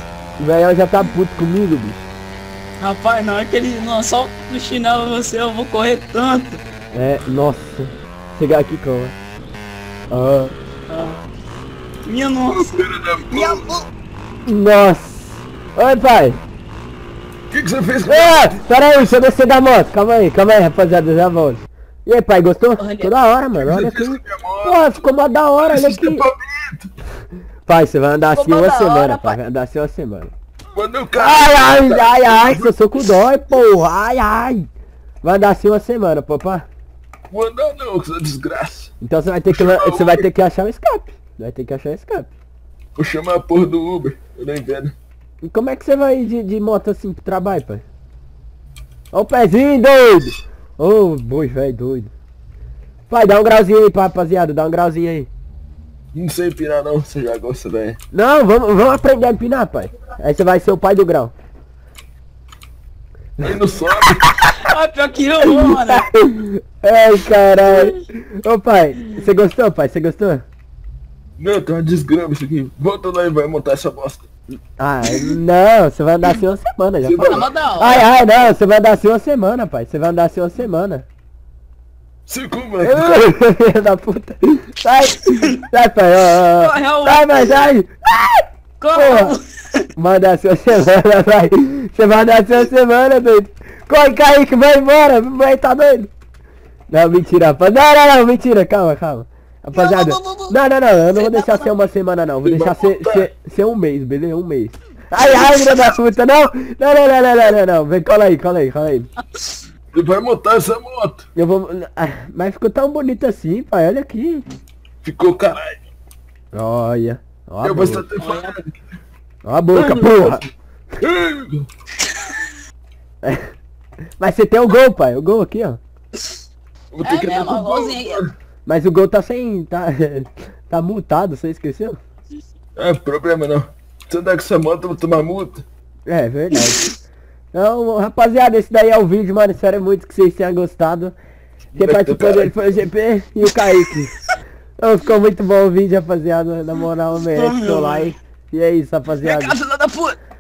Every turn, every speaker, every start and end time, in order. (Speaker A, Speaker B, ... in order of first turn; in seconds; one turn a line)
Speaker A: 0.4-2.0
Speaker B: 2.8-6.6
Speaker A: 6.9-9.2
Speaker A: 10.1-10.6
Speaker B: 10.9-11.2
Speaker B: 12.1-12.7
Speaker C: 12.5-13.7
Speaker B: 13.4-13.8
Speaker A: 14.5-16.4
Speaker C: 17.5-19.0
Speaker A: 18.1-26.3
Speaker C: 23.6-25.0
Speaker C: 25.6-26.9
Speaker A: 27.7-30.3
Speaker B: 28.4-29.4
Speaker C: 30.7-32.7
Speaker A: 31.2-34.7
Speaker A: 35.2-36.7
Speaker C: 37.3-38.9
Speaker A: 39.0-42.3
Speaker C: 39.5-40.3
Speaker C: 43.0-45.0
Speaker A: 45.4-47.8
Speaker A: 49.1-52.1
Speaker A: 53.1-55.3
Speaker C: 56.1-58.0
Speaker A: 58.1-61.3
Speaker C: 63.4-64.3
Speaker A: 64.1-64.5
Speaker B: 64.7-66.0
Speaker A: 65.5-70.4
Speaker C: 71.4-74.2
Speaker A: 74.5-81.1
Speaker C: 77.0-77.5
Speaker B: 77.3-78.0
Speaker C: 82.3-83.3
Speaker A: 82.8-89.4
Speaker B: 86.7-87.5
Speaker B: 88.8-89.8
Speaker A: 90.0-96.1
Speaker A: 96.9-109.1
Speaker B: 99.8-100.5
Speaker B: 101.2-101.6
Speaker C: 102.5-103.3
Speaker C: 109.9-111.2
Speaker A: 111.4-114.5
Speaker C: 115.0-115.8
Speaker A: 116.5-118.1
Speaker C: 117.6-118.7
Speaker B: 118.2-118.5
Speaker A: 119.4-120.5
Speaker C: 119.7-120.4
Speaker C: 121.0-121.7
Speaker A: 123.2-123.5
Speaker A: 124.2-125.8
Speaker C: 126.9-128.3
Speaker B: 127.0-128.2
Speaker A: 128.7-132.0
Speaker C: 132.8-135.7
Speaker A: 136.1-136.9
Speaker A: 137.5-141.2
Speaker C: 141.7-142.6
Speaker A: 141.8-144.2
Speaker A: 144.8-149.6
Speaker B: 147.4-148.0
Speaker B: 149.3-150.2